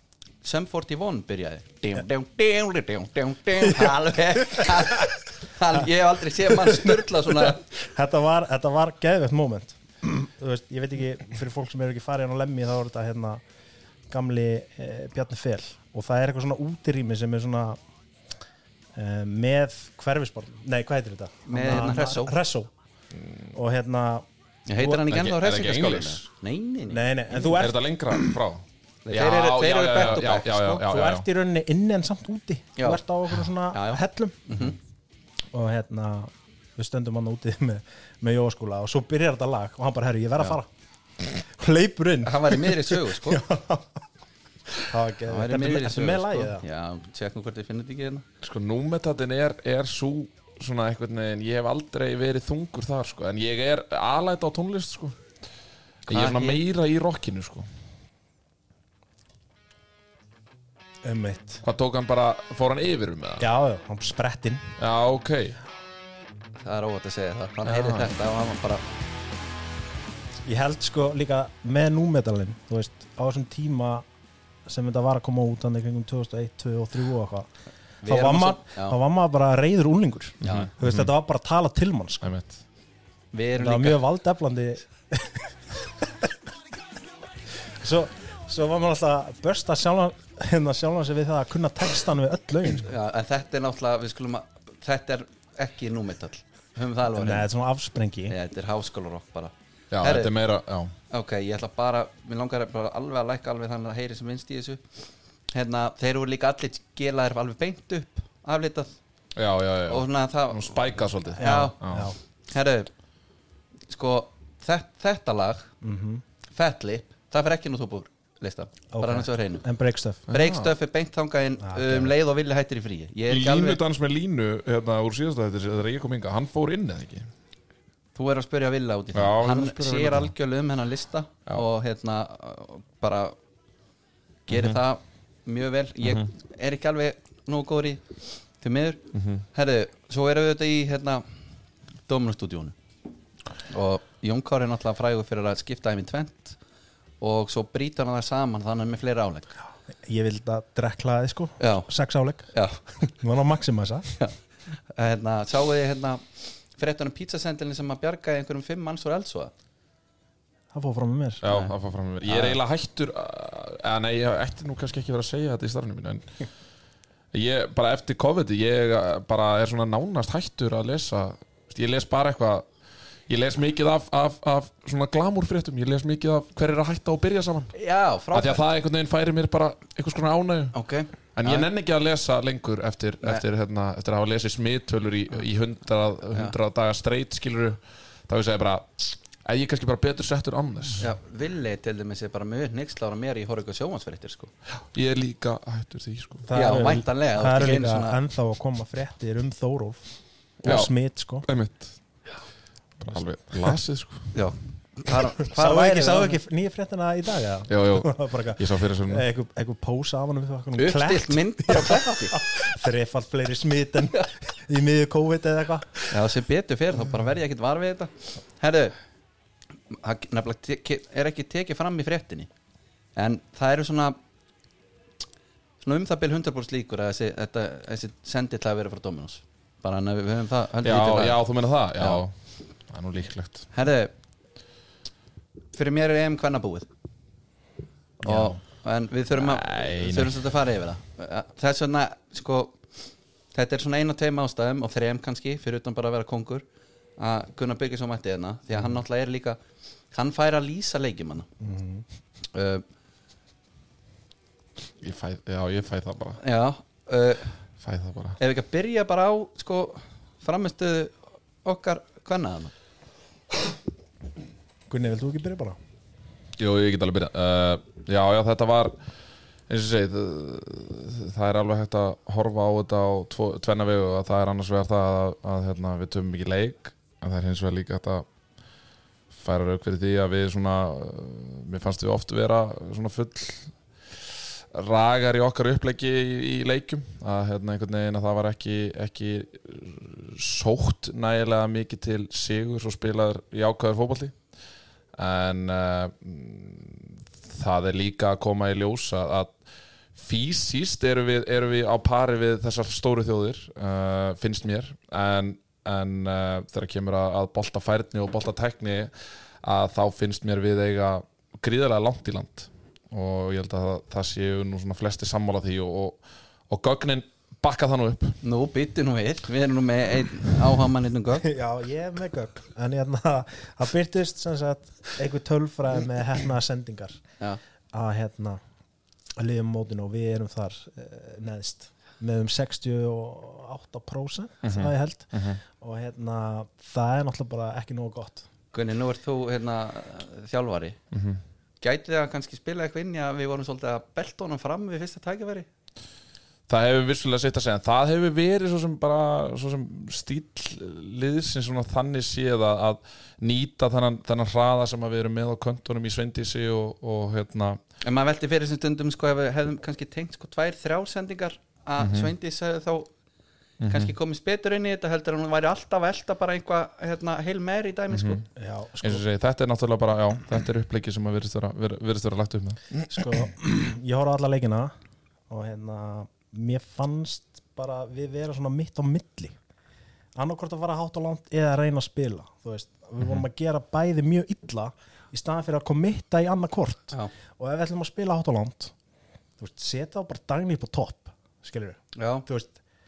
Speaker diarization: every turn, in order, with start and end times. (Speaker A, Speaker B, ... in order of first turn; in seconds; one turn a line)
Speaker A: 0.4-7.6
Speaker B: 3.6-5.1
Speaker B: 6.5-13.4
Speaker B: 14.1-17.8
Speaker B: 18.9-22.7
Speaker A: 21.4-22.4
Speaker B: 23.5-25.0
Speaker A: 24.7-27.6
Speaker C: 25.1-26.2
Speaker B: 26.9-28.3
Speaker C: 27.5-31.2
Speaker A: 29.1-30.8
Speaker B: 30.7-34.7
Speaker A: 33.7-34.8
Speaker B: 35.5-40.7
Speaker B: 41.2-44.0
Speaker A: 42.2-43.4
Speaker B: 44.8-46.6
Speaker A: 45.3-48.2
Speaker C: 48.4-55.2
Speaker C: 56.0-57.7
Speaker A: 56.1-56.6
Speaker B: 61.0-61.6
Speaker C: 61.6-63.5
Speaker B: 63.4-64.7
Speaker C: 64.8-65.6
Speaker A: 66.6-68.8
Speaker C: 67.7-68.1
Speaker B: 70.4-74.0
Speaker B: 74.7-77.5
Speaker A: 78.0-79.0
Speaker B: 78.0-82.3
Speaker C: 80.4-81.1
Speaker A: 80.4-80.7
Speaker C: 82.2-82.6
Speaker A: 83.3-84.0
Speaker B: 83.6-86.3
Speaker B: 87.6-92.9
Speaker A: 92.8-97.5
Speaker B: 97.1-98.3
Speaker A: 98.3-100.3
Speaker C: 99.9-100.9
Speaker A: 101.1-104.8
Speaker A: 105.5-109.0
Speaker C: 109.3-112.1
Speaker A: 109.9-111.8
Speaker B: 111.4-112.2
Speaker A: 112.5-112.9
Speaker A: 113.9-115.7
Speaker B: 115.8-116.2
Speaker A: 116.5-119.6
Speaker B: 118.9-120.3
Speaker A: 120.3-123.8
Speaker B: 121.6-122.1
Speaker C: 123.3-127.3
Speaker A: 128.1-133.4
Speaker C: 129.1-130.3
Speaker A: 134.5-141.2
Speaker C: 134.5-134.8
Speaker C: 139.1-139.4
Speaker A: 142.1-142.7
Speaker A: 143.7-146.6
Speaker A: 147.2-149.5
Speaker B: 150.0-152.5
Speaker A: 151.6-151.9
Speaker A: 152.5-152.8
Speaker B: 153.0-154.1
Speaker A: 154.9-159.5
Speaker B: 160.7-161.4
Speaker C: 161.4-166.3
Speaker A: 162.2-162.6
Speaker C: 167.3-172.6
Speaker C: 173.3-177.7
Speaker A: 177.7-178.6
Speaker C: 178.3-180.7
Speaker A: 180.7-181.7
Speaker C: 181.3-191.1
Speaker A: 191.0-194.5
Speaker C: 194.9-196.5
Speaker B: 196.4-200.0
Speaker A: 196.5-198.2
Speaker B: 200.6-201.4
Speaker C: 200.6-200.9
Speaker C: 201.4-201.9
Speaker C: 203.0-204.3
Speaker A: 204.3-206.4
Speaker B: 205.5-216.1
Speaker C: 207.7-209.2
Speaker A: 210.8-212.4
Speaker A: 216.1-218.9
Speaker A: 219.9-222.5
Speaker A: 223.2-224.2
Speaker A: 225.8-231.4
Speaker C: 230.8-232.3
Speaker C: 232.9-233.7
Speaker A: 233.7-234.1
Speaker A: 235.7-236.9
Speaker A: 238.2-242.8
Speaker C: 239.3-240.4
Speaker A: 243.5-246.6
Speaker A: 247.2-249.6
Speaker A: 250.1-251.5
Speaker B: 251.6-252.0
Speaker A: 252.5-252.8
Speaker C: 255.0-256.4
Speaker A: 256.4-257.5
Speaker C: 257.8-258.4
Speaker A: 258.4-262.7
Speaker B: 264.9-265.8
Speaker C: 266.6-268.9
Speaker C: 269.7-278.2
Speaker C: 279.3-283.7
Speaker C: 284.7-294.3
Speaker C: 295.1-299.5
Speaker C: 300.1-318.4
Speaker A: 318.4-321.5
Speaker B: 321.4-327.2
Speaker B: 327.9-328.6
Speaker B: 329.4-338.5
Speaker C: 334.6-335.6
Speaker A: 338.7-341.0
Speaker C: 341.1-341.4
Speaker A: 341.8-345.7
Speaker C: 346.7-357.8
Speaker A: 358.0-363.1
Speaker C: 362.0-362.3
Speaker C: 363.8-364.1
Speaker A: 363.9-368.4
Speaker C: 368.1-368.4
Speaker B: 368.6-369.2
Speaker C: 369.0-373.3
Speaker B: 373.1-374.9
Speaker B: 375.5-379.6
Speaker B: 380.3-388.9
Speaker B: 389.6-392.8
Speaker A: 392.1-392.4